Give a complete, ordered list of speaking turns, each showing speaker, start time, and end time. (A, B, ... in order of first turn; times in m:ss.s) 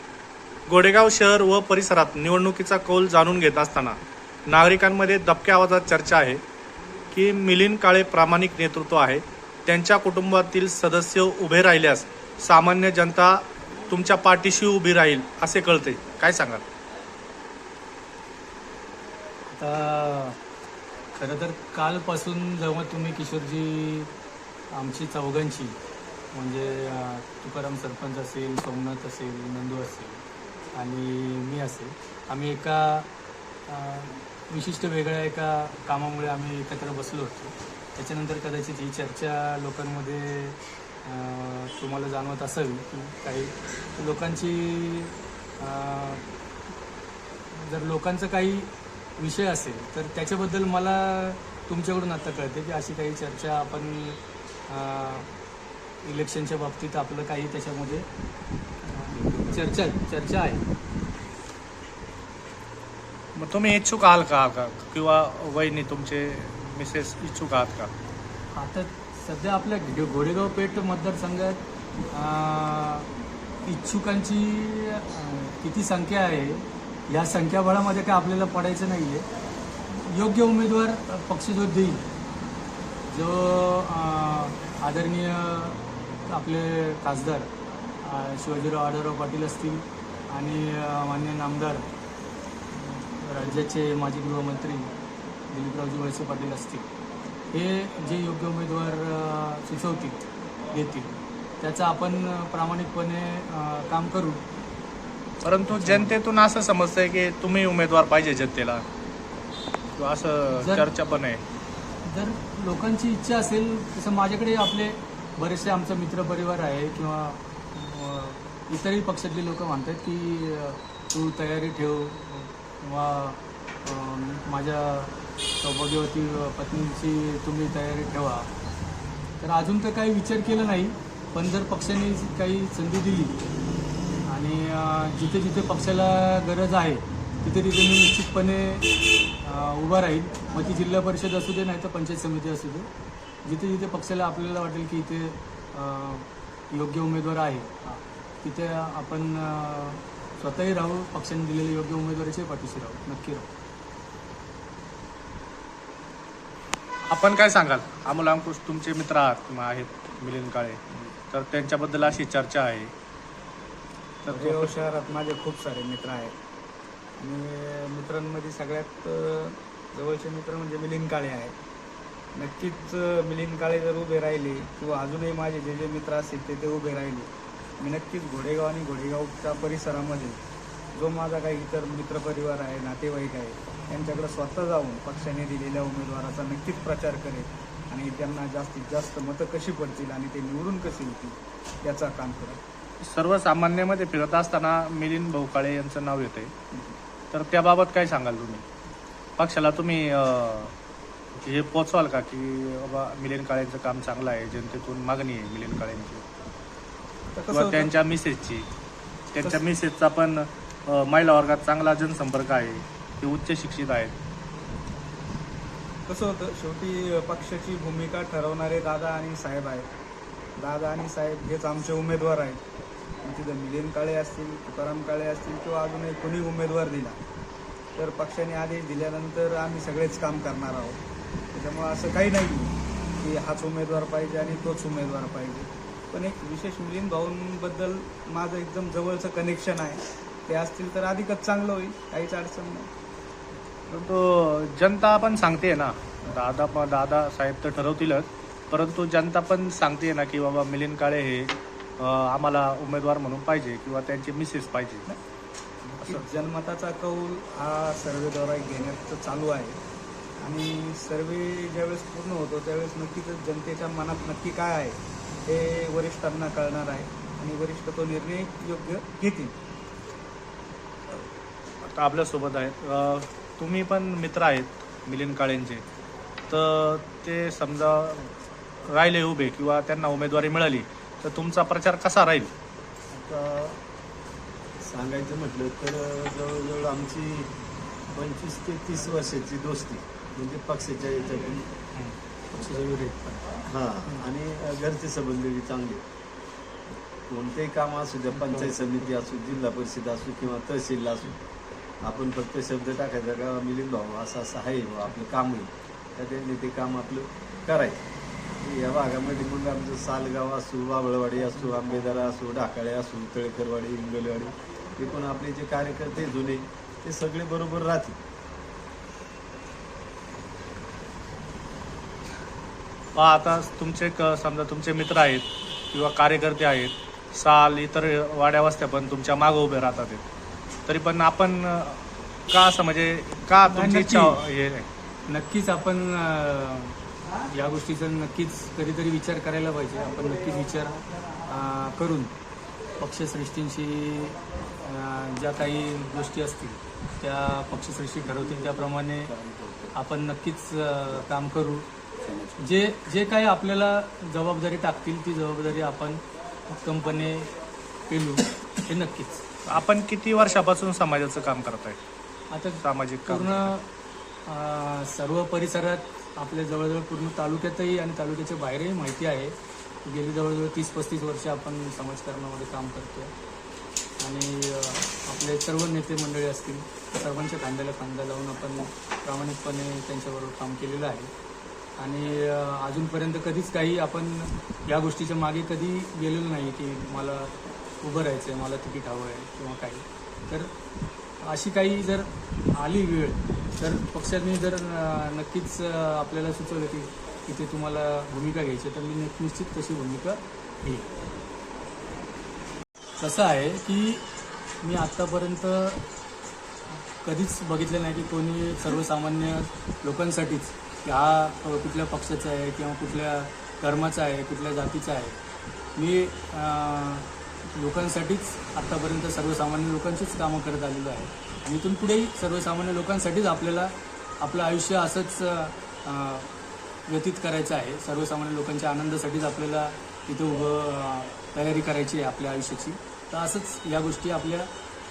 0:00.7-0:06.4 A
0:07.1-0:16.6 A
0:19.5-0:20.4 B
0:21.2-0:24.1 B
0:24.7-0:25.8 B
0:26.3-0:33.1 B
0:33.7-0:46.2 B
0:47.5-0:55.3 B
0:56.0-0:58.1 B
0:58.8-1:00.7 B
0:59.2-0:59.6 C
1:03.4-1:07.9 A
1:08.5-1:13.1 B
1:13.6-1:19.3 B
1:19.9-1:22.1 B
1:23.1-1:27.5 B
1:28.0-1:31.9 B
1:32.7-1:34.9 B
1:35.5-1:36.9 B
1:37.5-1:40.2 B
1:40.7-1:44.4 B
1:45.4-1:48.8 A
1:45.7-1:46.2 B
1:50.0-1:51.4 A
1:50.6-1:50.9 B
1:52.0-2:08.5 B
2:09.4-2:13.4 B
2:14.3-2:18.9 B
2:19.4-2:22.9 B
2:23.4-2:33.5 B
2:37.0-2:42.9 A
2:44.2-2:44.7 A
2:44.2-2:46.4 D
2:47.2-2:51.6 D
2:52.4-3:00.4 D
3:01.0-3:12.6 D
3:13.0-3:16.5 A
3:17.3-3:18.6 A
3:19.4-3:20.7 A
3:21.4-3:26.2 A
3:27.3-3:27.9 D
3:27.5-3:28.7 A
3:29.3-3:34.2 A
3:36.1-3:39.9 D
3:40.6-3:42.6 D
3:43.2-3:47.2 D
3:48.0-3:51.0 D
3:51.5-4:02.9 D
4:03.9-4:15.1 A
4:15.9-4:19.8 D
4:20.4-4:29.5 D
4:31.8-4:35.8 A
4:36.5-4:38.3 A
4:38.8-4:42.5 A
4:43.1-4:43.8 C
4:44.8-4:47.5 C
4:48.1-4:51.7 C
4:52.5-4:53.6 B
4:53.6-4:56.0 C
4:56.9-5:01.4 C
4:58.4-4:58.8 B
5:02.0-5:08.1 C
5:08.6-5:18.2 C
5:23.2-5:30.2 A
5:30.9-5:34.9 A
5:33.7-5:34.4 B
5:35.3-5:37.0 B
5:37.5-5:42.3 B
5:43.0-5:49.3 B
5:48.2-5:50.0 C
5:49.9-5:51.9 B
5:52.3-5:52.7 C
5:52.6-5:57.5 B
5:58.1-5:59.5 B
5:59.7-6:02.0 A
6:02.5-6:03.9 B
6:02.8-6:03.7 A
6:04.5-6:13.3 B
6:14.2-6:21.3 B
6:22.0-6:30.7 B
6:31.4-6:41.1 B
6:43.2-6:44.3 B
6:44.8-6:46.0 B
6:47.2-6:55.4 B
6:56.0-7:06.5 B
7:07.1-7:14.7 B